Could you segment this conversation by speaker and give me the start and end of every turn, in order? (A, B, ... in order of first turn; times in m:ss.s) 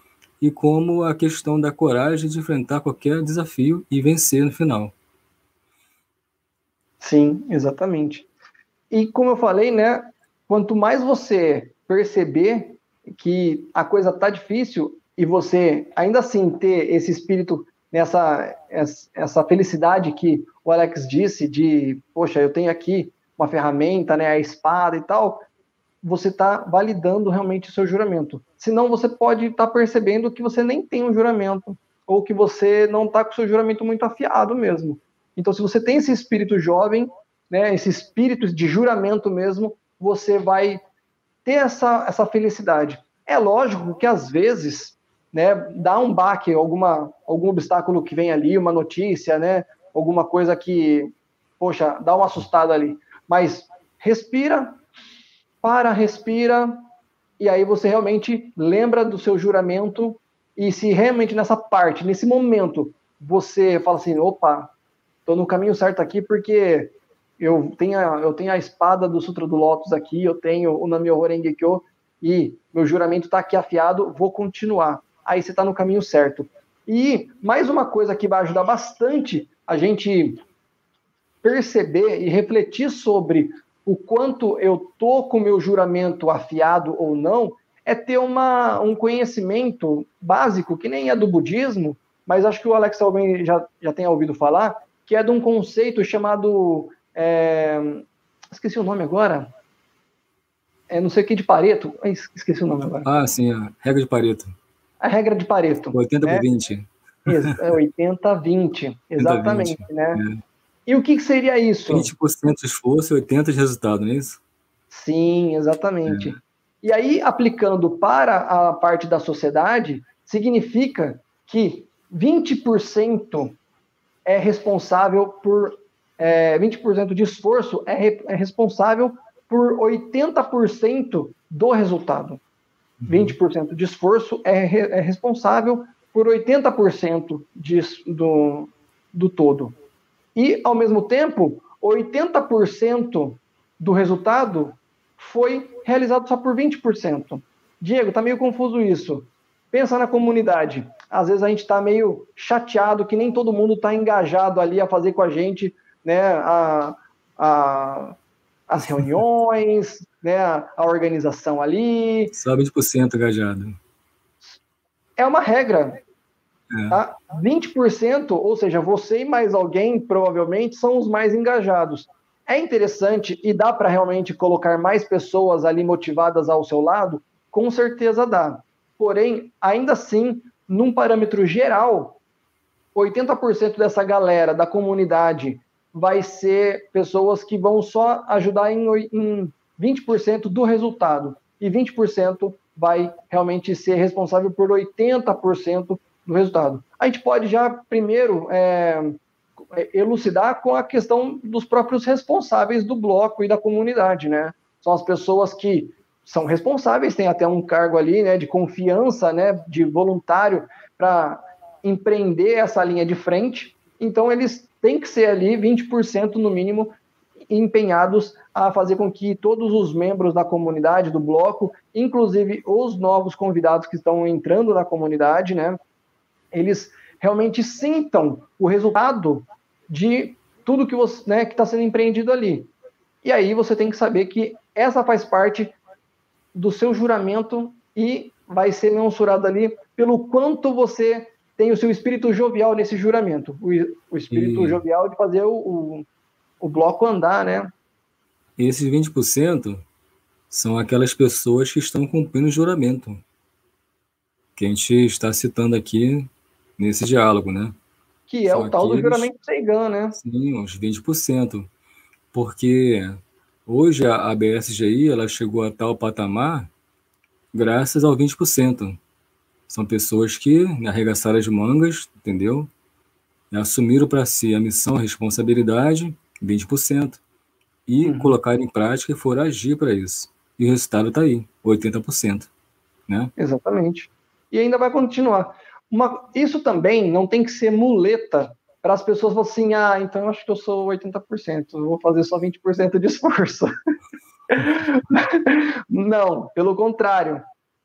0:00.4-0:04.9 A
0:07.0-0:08.3 B
0:08.9-0:25.5 B
0:26.0-0:40.8 B
0:41.4-0:54.8 B
0:55.6-0:56.8 B
0:57.4-1:04.7 B
1:05.3-1:20.4 B
1:21.4-1:39.5 B
1:40.9-1:43.1 B
1:43.0-1:44.6 A
1:45.0-1:46.5 B
1:45.9-1:46.9 A
1:47.3-1:50.2 B
1:49.2-1:50.4 A
1:50.9-1:52.1 B
1:51.9-1:54.4 A
1:54.9-2:03.6 B
2:04.3-2:12.4 B
2:13.0-2:13.4 A
2:13.1-2:19.8 B
2:20.4-2:38.2 B
2:38.7-2:42.4 B
2:42.3-2:43.8 A
2:45.2-2:46.0 B
2:46.7-2:47.0 A
2:46.9-3:02.2 B
3:03.0-3:19.2 B
3:19.7-3:37.0 B
3:37.5-3:45.8 B
3:46.5-3:52.7 B
3:53.2-3:55.8 B
3:56.6-4:06.1 B
4:04.3-4:04.8 A
4:06.6-4:07.7 B
4:08.6-4:09.8 A
4:10.5-4:13.2 A
4:14.6-4:17.8 A
4:18.3-4:20.2 B
4:18.5-4:19.3 A
4:20.2-4:21.7 A
4:22.3-4:26.7 A
4:27.5-4:29.0 A
4:29.7-4:32.7 A
4:33.5-4:37.2 A
4:37.9-4:42.5 A
4:38.0-4:38.4 B
4:43.4-4:53.7 B
4:54.5-4:57.4 B